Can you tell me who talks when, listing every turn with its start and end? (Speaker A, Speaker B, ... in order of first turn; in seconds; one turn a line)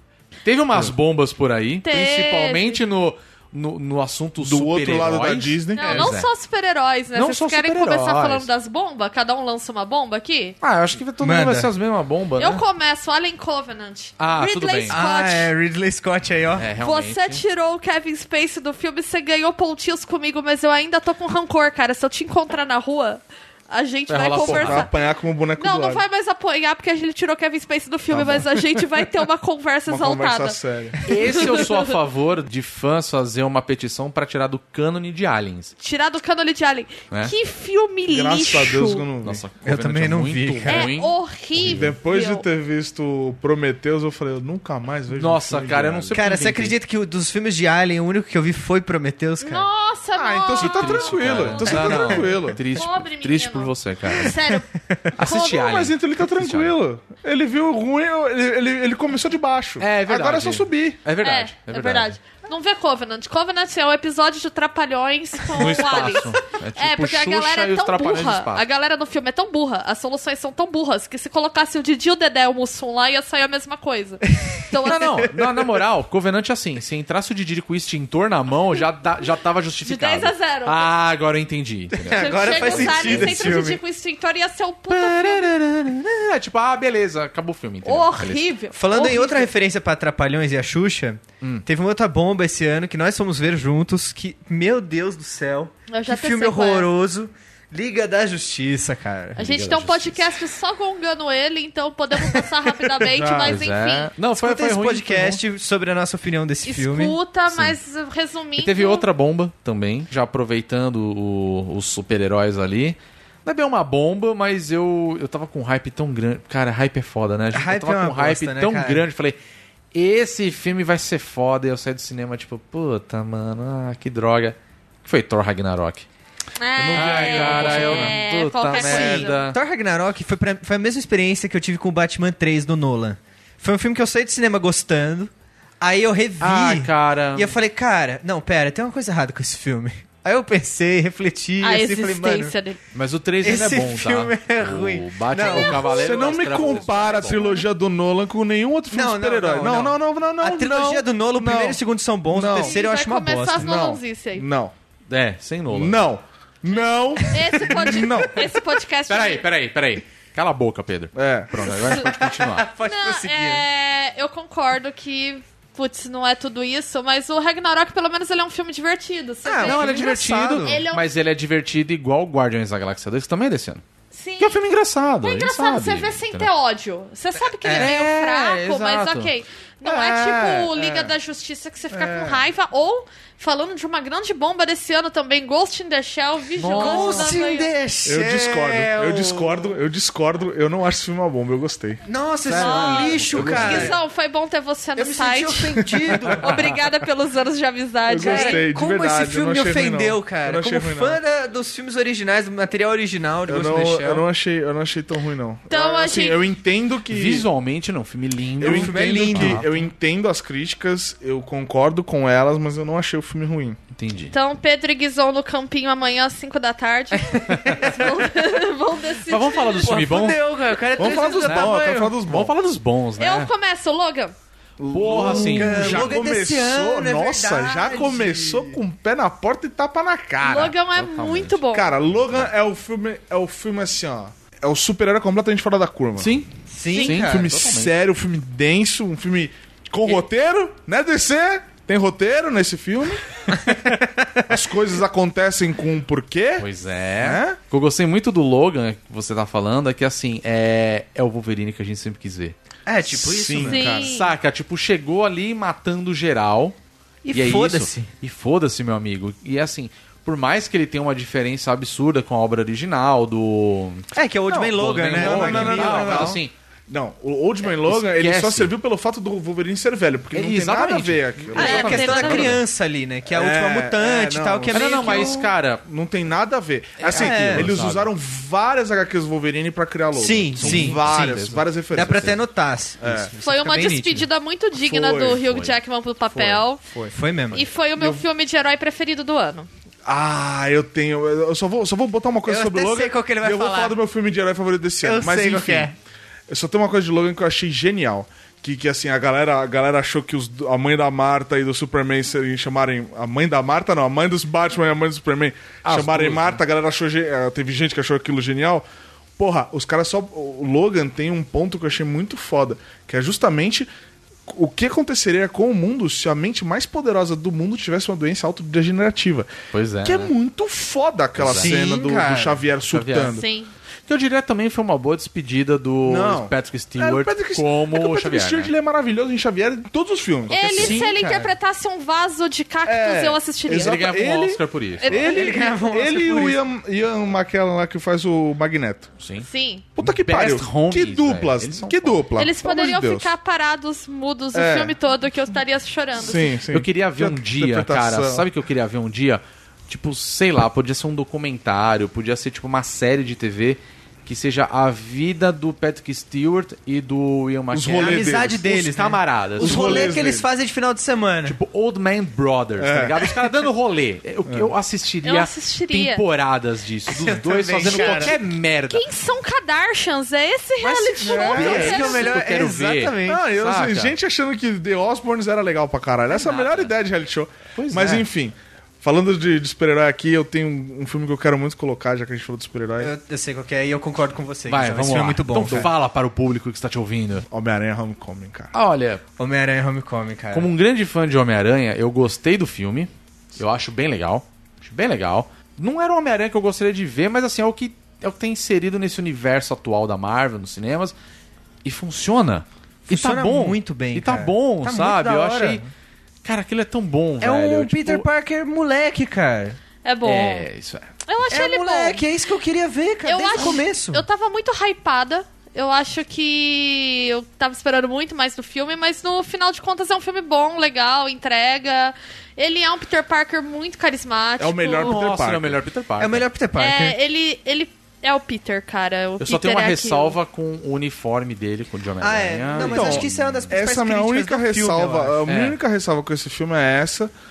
Speaker A: 0.5-6.3
Speaker B: 1.8-2.8
Speaker C: 4.4-6.1
Speaker B: 5.8-10.6
Speaker A: 7.2-8.5
Speaker A: 10.6-12.6
Speaker D: 11.2-11.7
Speaker B: 12.4-15.5
Speaker A: 14.2-15.0
Speaker D: 14.9-16.7
Speaker A: 16.6-17.4
Speaker B: 16.8-24.9
Speaker A: 24.1-24.9
Speaker C: 24.4-26.0
Speaker B: 25.6-30.6
Speaker C: 28.1-28.6
Speaker C: 29.9-31.4
Speaker A: 31.1-35.7
Speaker B: 31.1-31.8
Speaker B: 35.8-39.0
Speaker C: 38.1-39.4
Speaker A: 39.2-41.9
Speaker D: 39.6-40.9
Speaker B: 40.7-42.4
Speaker C: 41.6-46.2
Speaker A: 45.1-46.8
Speaker D: 46.1-49.7
Speaker B: 49.4-54.7
Speaker C: 50.1-52.6
Speaker A: 50.6-54.4
Speaker D: 54.8-55.1
Speaker A: 55.2-56.7
Speaker B: 55.2-55.7
Speaker C: 55.2-61.0
Speaker A: 59.8-62.2
Speaker B: 61.2-75.3
Speaker A: 65.5-68.6
Speaker D: 74.4-74.7
Speaker A: 74.8-83.7
Speaker B: 79.8-80.9
Speaker D: 81.9-83.8
Speaker B: 82.2-85.5
Speaker A: 84.9-88.5
Speaker B: 87.8-89.5
Speaker D: 88.7-99.4
Speaker B: 95.9-96.9
Speaker A: 99.4-100.4
Speaker B: 99.4-104.1
Speaker C: 103.1-103.6
Speaker A: 103.3-105.4
Speaker D: 104.4-107.2
Speaker B: 106.7-109.0
Speaker A: 107.5-107.8
Speaker A: 108.6-119.4
Speaker D: 117.5-119.0
Speaker A: 119.9-126.1
Speaker B: 126.6-129.4
Speaker C: 126.8-128.2
Speaker A: 126.9-129.6
Speaker D: 128.7-142.5
Speaker A: 136.4-137.6
Speaker B: 141.6-142.8
Speaker A: 142.9-147.4
Speaker D: 143.4-145.9
Speaker B: 145.4-147.6
Speaker C: 145.8-152.8
Speaker D: 148.9-153.7
Speaker B: 152.6-154.5
Speaker C: 153.6-154.7
Speaker A: 155.1-156.0
Speaker C: 155.7-158.5
Speaker B: 157.3-159.5
Speaker A: 159.1-162.7
Speaker C: 161.2-161.7
Speaker D: 162.1-163.7
Speaker B: 162.8-171.1
Speaker D: 169.4-170.8
Speaker A: 169.6-173.8
Speaker B: 174.1-174.6
Speaker A: 174.4-176.5
Speaker B: 175.2-187.7
Speaker D: 177.4-177.9
Speaker A: 177.7-179.3
Speaker D: 179.8-180.8
Speaker C: 180.7-181.1
Speaker C: 182.0-182.4
Speaker A: 186.6-187.4
Speaker D: 186.6-189.7
Speaker C: 188.1-192.0
Speaker D: 192.1-194.0
Speaker A: 192.5-194.0
Speaker B: 192.5-198.6
Speaker C: 193.4-193.9
Speaker D: 195.0-196.5
Speaker C: 195.9-196.4
Speaker A: 196.3-196.8
Speaker C: 198.1-201.2
Speaker D: 198.2-204.2
Speaker C: 203.5-207.5
Speaker B: 205.7-206.4
Speaker A: 207.1-209.9
Speaker C: 208.6-213.8
Speaker D: 208.6-209.6
Speaker A: 213.9-214.4
Speaker B: 214.3-220.0
Speaker D: 217.2-218.4
Speaker A: 219.3-223.5
Speaker D: 219.8-222.1
Speaker C: 221.0-222.5
Speaker B: 223.2-224.3
Speaker C: 224.8-230.8
Speaker A: 224.9-226.2
Speaker D: 225.1-228.8
Speaker B: 230.4-231.9
Speaker A: 230.9-231.6
Speaker C: 231.7-236.3
Speaker A: 232.2-232.5
Speaker A: 236.2-237.9
Speaker D: 236.7-237.5
Speaker C: 237.0-243.3
Speaker D: 243.5-244.5
Speaker C: 244.5-246.7
Speaker A: 246.6-252.6
Speaker C: 247.2-247.6
Speaker D: 252.9-253.9
Speaker C: 253.1-254.1
Speaker B: 253.7-254.3
Speaker A: 254.0-256.8
Speaker D: 257.2-258.1
Speaker A: 257.3-264.1
Speaker D: 264.1-266.4
Speaker C: 264.5-272.2
Speaker A: 264.7-266.5
Speaker A: 267.6-268.7
Speaker A: 270.3-272.6
Speaker D: 271.5-275.5
Speaker B: 271.6-272.6
Speaker C: 273.3-282.4
Speaker A: 274.7-275.8
Speaker A: 277.0-278.1
Speaker D: 277.1-277.7
Speaker D: 280.1-281.4
Speaker A: 280.6-282.4
Speaker D: 281.9-284.3
Speaker C: 283.0-283.3
Speaker B: 283.4-286.8
Speaker C: 284.8-285.6
Speaker A: 285.4-285.8
Speaker C: 286.3-287.1
Speaker D: 287.1-287.7
Speaker B: 287.5-289.7
Speaker C: 288.0-288.2
Speaker C: 290.1-295.9
Speaker D: 292.5-294.0
Speaker D: 295.0-295.9
Speaker C: 296.5-308.9
Speaker A: 305.8-306.6
Speaker C: 309.4-313.9
Speaker C: 314.5-323.5
Speaker A: 319.7-320.3
Speaker A: 321.4-321.8
Speaker D: 321.6-322.6
Speaker A: 322.9-323.4
Speaker B: 323.3-323.7
Speaker A: 324.1-328.7
Speaker C: 326.1-331.0
Speaker B: 330.5-334.0
Speaker D: 330.7-331.5
Speaker C: 332.9-339.1
Speaker A: 333.7-335.3
Speaker D: 335.0-336.6
Speaker A: 339.2-339.5
Speaker B: 339.5-339.9
Speaker C: 340.0-343.3
Speaker A: 340.0-342.3
Speaker B: 342.4-346.6
Speaker C: 344.5-344.9
Speaker C: 346.2-348.5
Speaker A: 346.7-360.1
Speaker C: 357.7-358.6
Speaker D: 357.9-361.6
Speaker C: 359.6-360.5
Speaker A: 361.4-369.1
Speaker C: 362.8-363.5
Speaker B: 365.2-366.2
Speaker D: 367.1-368.4
Speaker C: 367.9-368.3
Speaker B: 368.9-372.4
Speaker A: 370.8-374.1
Speaker D: 371.2-373.4
Speaker C: 371.2-372.1
Speaker C: 373.3-383.1
Speaker A: 376.3-376.9
Speaker A: 377.8-378.3
Speaker D: 383.0-385.9
Speaker A: 384.7-387.5
Speaker C: 385.6-385.9
Speaker C: 387.5-388.7
Speaker A: 388.7-389.2
Speaker D: 389.4-390.7
Speaker A: 390.5-401.1
Speaker A: 401.9-405.9
Speaker D: 403.1-405.9
Speaker A: 406.4-408.2
Speaker D: 407.4-409.8
Speaker B: 410.1-410.6
Speaker A: 410.2-411.1
Speaker B: 411.3-412.2
Speaker D: 411.5-414.2
Speaker B: 413.3-425.2
Speaker C: 424.6-425.8
Speaker A: 425.0-426.5
Speaker D: 426.2-427.2
Speaker B: 426.8-430.4
Speaker A: 429.4-433.8
Speaker D: 432.2-435.4
Speaker C: 432.8-437.3
Speaker A: 435.5-435.8